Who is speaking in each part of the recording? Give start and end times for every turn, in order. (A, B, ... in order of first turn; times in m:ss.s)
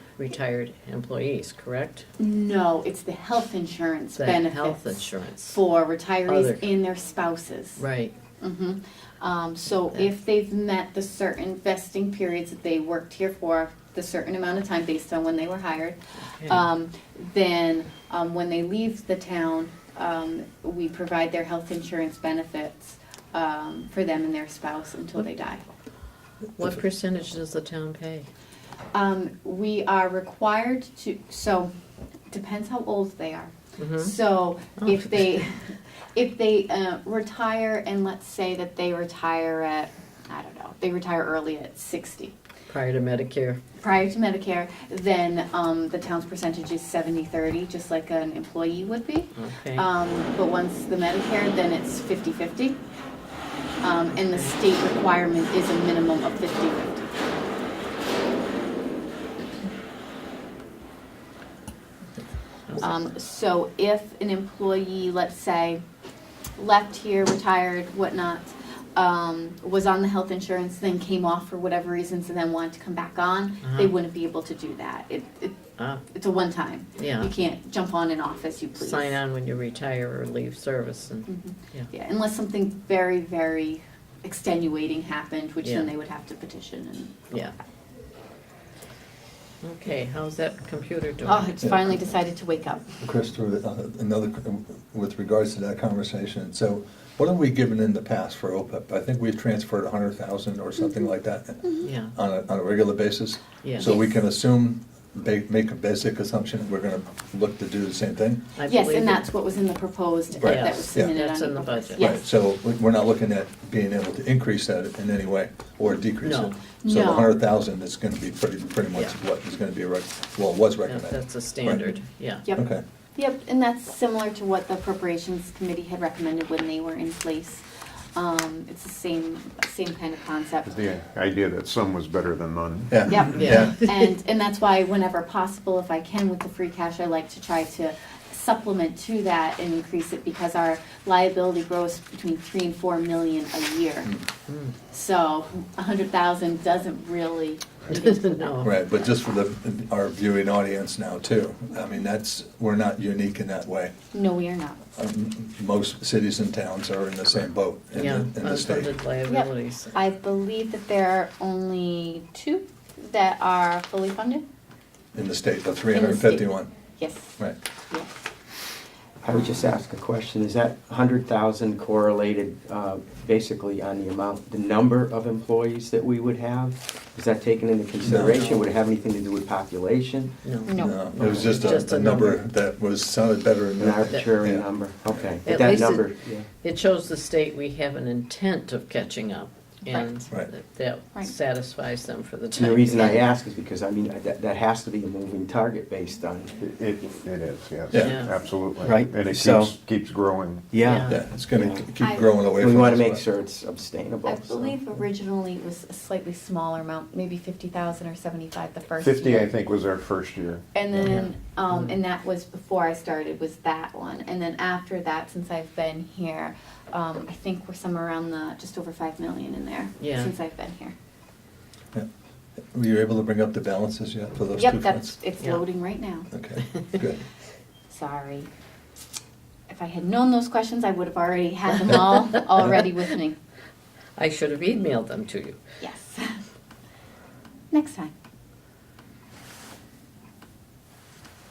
0:00.2-0:02.1 A
0:02.2-0:07.8 B
0:04.2-0:05.6 A
0:06.3-0:06.7 A
0:07.8-0:08.1 A
0:08.4-0:25.6 B
0:16.4-0:16.6 A
0:26.6-0:28.3 A
0:28.9-0:31.7 B
0:32.3-0:42.4 B
0:33.8-0:34.2 A
0:34.8-0:35.4 A
0:42.7-0:43.6 A
0:43.8-0:52.8 B
0:49.4-0:49.9 A
0:53.8-0:57.4 B
0:54.2-0:54.6 A
1:02.8-1:05.8 B
1:06.6-1:19.2 B
1:13.6-1:13.9 A
1:15.8-1:16.0 A
1:17.0-1:17.3 A
1:18.8-1:21.9 A
1:21.3-1:27.4 B
1:25.6-1:25.9 A
1:29.6-1:31.5 A
1:31.3-1:32.9 B
1:33.0-1:48.4 C
1:41.6-1:41.9 B
1:41.8-1:42.2 A
1:43.6-1:43.9 A
1:48.6-1:49.3 A
1:48.7-1:52.3 B
1:50.4-1:51.2 C
1:50.4-1:52.2 A
1:52.0-2:01.9 C
1:56.2-1:56.6 A
1:56.8-1:57.3 B
2:00.8-2:02.4 A
2:02.4-2:02.8 C
2:03.2-2:07.6 B
2:08.2-2:10.8 B
2:10.7-2:13.0 D
2:12.9-2:13.8 C
2:13.1-2:24.2 B
2:13.3-2:13.8 A
2:24.9-2:28.8 B
2:27.9-2:28.7 A
2:28.6-2:33.9 C
2:34.1-2:34.8 B
2:35.0-2:38.9 C
2:37.9-2:40.0 A
2:39.3-2:44.4 B
2:45.1-2:46.7 C
2:45.9-2:47.4 B
2:49.2-3:00.7 E
2:58.0-2:58.4 C
2:58.2-2:58.6 A
3:00.4-3:02.4 A
3:00.7-3:01.4 B
3:00.8-3:04.7 C
3:01.2-3:01.6 E
3:03.8-3:06.5 E
3:05.4-3:13.2 A
3:12.5-3:16.6 E
3:16.6-3:20.7 D
3:17.9-3:18.2 C
3:17.9-3:18.4 A
3:18.8-3:19.7 E
3:20.7-3:21.9 E
3:20.8-3:21.2 A
3:21.1-3:23.2 C
3:22.0-3:22.5 B
3:22.5-3:24.8 E
3:24.2-3:29.5 B
3:29.0-3:30.6 D
3:30.7-3:41.0 B
3:31.0-3:32.0 A
3:40.0-3:40.3 A
3:42.7-3:45.1 C
3:44.6-3:46.3 B
3:46.3-3:47.2 C
3:47.9-3:48.5 B
3:49.7-3:53.4 B
3:54.2-3:55.6 A
3:55.8-3:56.4 B
3:57.7-3:58.1 B